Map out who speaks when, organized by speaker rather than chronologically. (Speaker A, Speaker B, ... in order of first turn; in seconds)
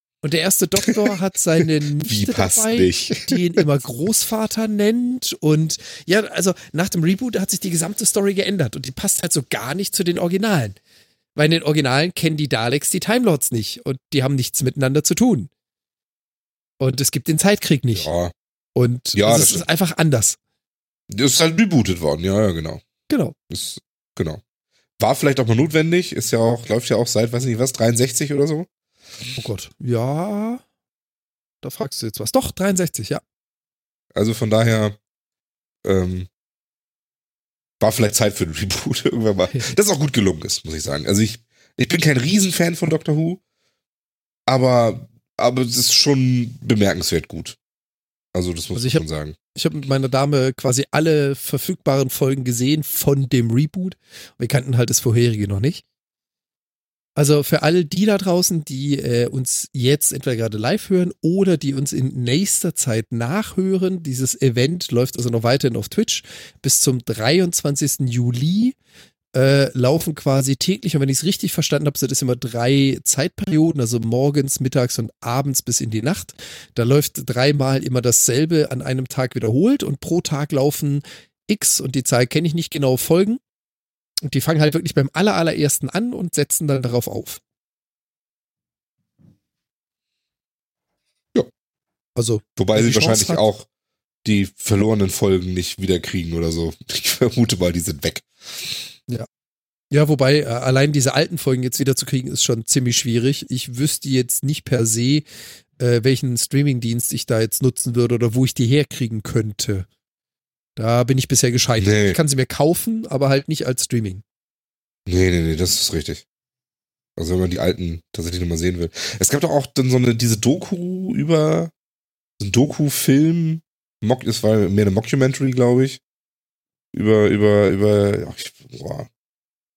Speaker A: 0.2-10.8, 11.3-15.5, 16.8-18.1, 18.8-20.4, 23.1-23.4, 29.4-30.6, 31.6-33.2, 48.7-49.0, 49.5-55.8, 57.2-68.8, 69.3-83.4, 84.3-87.4, 92.2-93.4, 99.9-105.3, 105.8-109.9, 110.8-114.2
Speaker B: 2.0-3.6, 17.9-18.3, 19.1-19.6, 21.1-22.8, 23.5-24.4, 25.0-28.7, 34.1-35.0, 35.8-36.3, 37.8-43.4, 44.5-47.6, 48.3-49.4, 92.6-93.7, 94.2-98.9, 111.8-112.2, 115.1-116.2, 117.2-121.7, 122.4-126.0, 126.9-129.1